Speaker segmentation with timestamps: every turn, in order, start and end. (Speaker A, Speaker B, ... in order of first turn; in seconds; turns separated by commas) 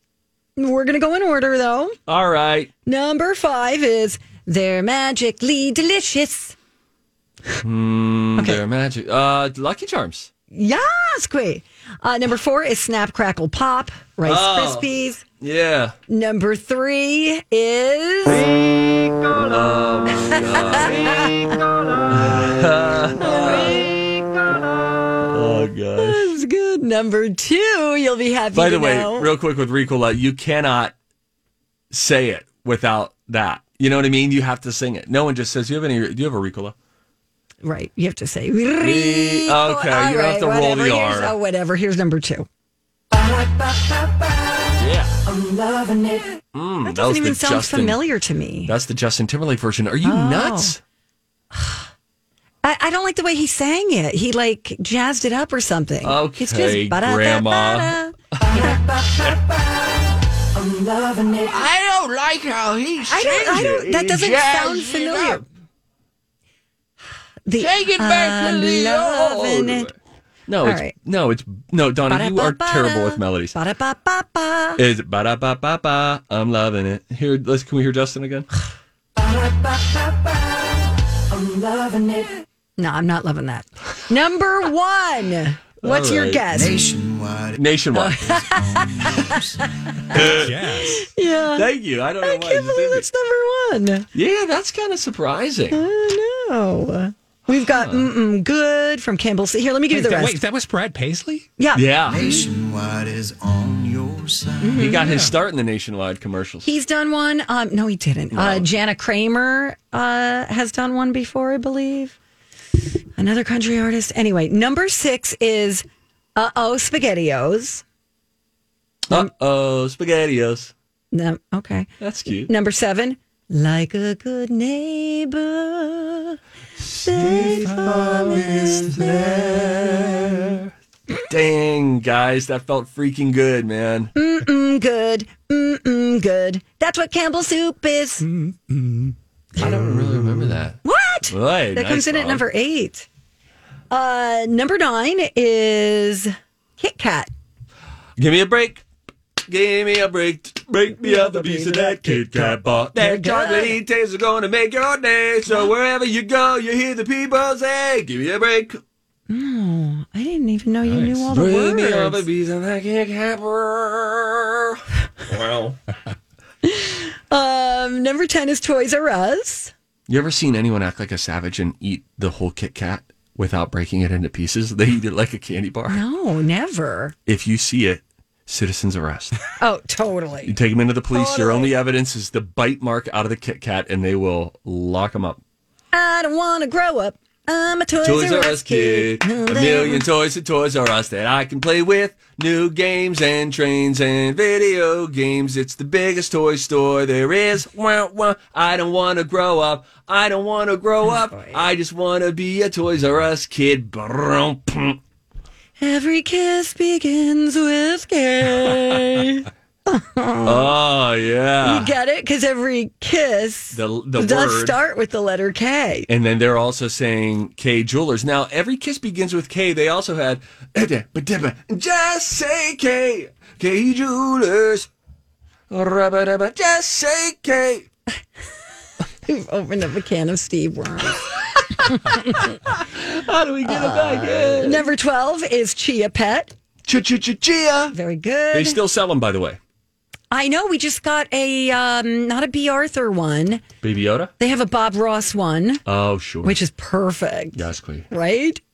Speaker A: 0.6-2.0, Speaker B: 2.1-2.7, Speaker A: 2.9-6.5, Speaker B: 7.6-10.3, Speaker A: 10.5-15.2, Speaker B: 14.2-14.9, Speaker B: 15.4-16.0, Speaker A: 16.1-18.6, Speaker B: 18.3-21.5, Speaker A: 20.1-21.6, Speaker B: 22.1-23.9, Speaker A: 23.2-24.6, Speaker B: 25.2-26.3, Speaker A: 25.9-29.3, Speaker B: 28.5-30.9, Speaker B: 31.9-36.7, Speaker A: 37.6-42.5, Speaker B: 38.8-41.4, Speaker A: 43.1-44.7, Speaker B: 44.8-45.1, Speaker A: 45.2-48.7, Speaker C: 45.6-45.9, Speaker B: 46.5-48.0, Speaker B: 48.6-50.8, Speaker A: 50.0-50.7, Speaker A: 51.5-51.8, Speaker A: 52.6-58.8, Speaker B: 56.0-59.4, Speaker B: 61.5-65.4, Speaker A: 63.1-65.4, Speaker A: 67.5-69.9, Speaker B: 67.6-69.9, Speaker B: 70.5-73.5, Speaker A: 70.6-71.0, Speaker A: 72.1-74.8, Speaker B: 74.8-78.5, Speaker C: 79.4-80.0, Speaker C: 81.5-82.2, Speaker A: 82.8-86.9, Speaker B: 85.8-86.5, Speaker C: 86.5-89.6, Speaker B: 87.5-88.2, Speaker A: 87.9-89.4, Speaker A: 90.1-94.1, Speaker B: 90.1-90.7, Speaker D: 90.3-91.0, Speaker B: 91.5-93.1, Speaker B: 94.1-95.8, Speaker A: 95.7-100.4, Speaker B: 97.5-98.1, Speaker D: 99.9-101.5, Speaker A: 101.6-102.5, Speaker B: 101.7-102.3, Speaker C: 102.1-104.9, Speaker A: 104.6-105.1, Speaker B: 104.8-106.7, Speaker D: 105.0-105.3, Speaker A: 106.6-112.2, Speaker B: 108.3-108.7, Speaker A: 113.2-115.8, Speaker A: 116.3-117.8, Speaker B: 119.1-120.7, Speaker A: 121.1-126.4, Speaker B: 122.0-122.5, Speaker B: 126.8-130.7, Speaker A: 127.0-130.4, Speaker B: 131.3-134.1, Speaker A: 134.1-138.2, Speaker D: 138.2-139.7, Speaker B: 139.6-142.4, Speaker A: 139.6-139.9, Speaker A: 140.8-143.1, Speaker A: 143.9-147.3, Speaker B: 148.2-148.8, Speaker B: 149.4-158.8, Speaker A: 151.0-153.8, Speaker A: 159.3-162.2, Speaker D: 160.8-161.2, Speaker B: 161.3-165.8, Speaker A: 166.6-169.7, Speaker B: 170.1-176.0, Speaker A: 175.9-177.1, Speaker B: 177.3-179.3, Speaker A: 179.6-180.6, Speaker B: 180.4-185.4, Speaker A: 181.1-181.7, Speaker A: 185.9-190.0, Speaker B: 188.0-205.0, Speaker A: 201.1-201.6, Speaker A: 205.8-210.7, Speaker B: 210.4-211.9, Speaker A: 211.6-216.1, Speaker B: 213.7-214.8, Speaker B: 216.1-224.9, Speaker B: 225.7-227.9, Speaker A: 229.2-232.6, Speaker B: 231.4-234.9, Speaker A: 233.6-236.5, Speaker B: 236.8-237.9, Speaker A: 237.9-238.8, Speaker B: 238.5-239.6, Speaker A: 240.3-243.6, Speaker B: 243.8-244.3, Speaker A: 244.4-245.8, Speaker B: 245.8-246.6, Speaker A: 246.4-248.6, Speaker B: 247.5-248.1